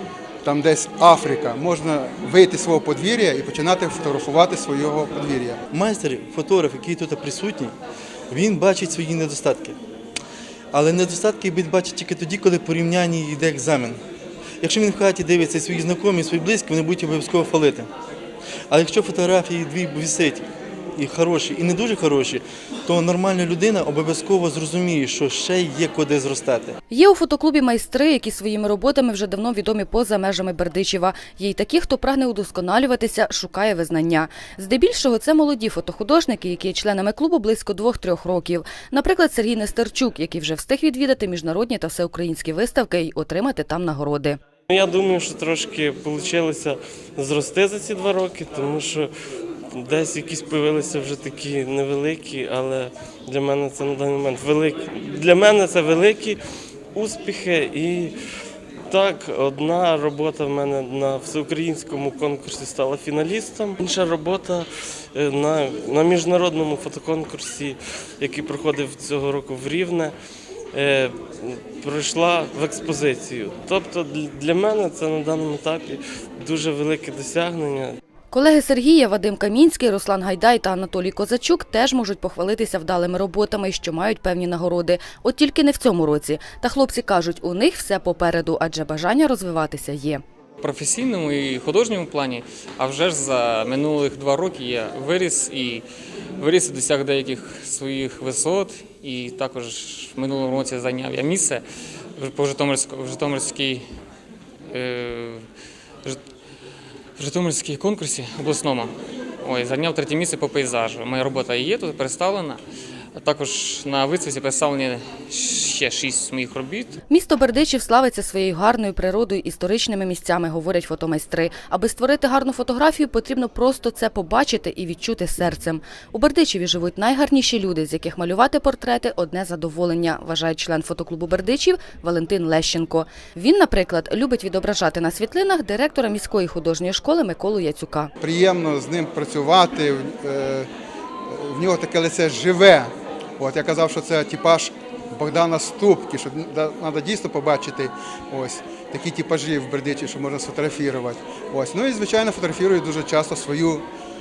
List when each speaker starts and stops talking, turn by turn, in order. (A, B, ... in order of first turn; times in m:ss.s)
0:00.4-0:05.6 A
0:05.7-0:07.7 B
0:08.3-0:09.8 B
0:10.7-0:14.0 B
0:14.6-0:17.9 B
0:18.7-0:20.4 B
0:21.0-0:26.8 B
0:26.9-0:44.4 C
0:44.7-0:49.1 D
0:49.8-0:56.4 D
0:56.9-0:58.1 D
0:58.9-1:10.1 D
1:10.7-1:18.0 D
1:18.3-1:30.2 C
1:30.6-1:35.8 E
1:36.4-1:41.6 E
1:42.2-1:43.8 E
1:44.7-1:45.4 E
1:47.2-1:48.9 E
1:49.4-1:52.6 E
1:53.2-1:57.0 E
1:57.1-2:18.1 C
2:18.2-2:20.7 A
2:21.3-2:33.8 A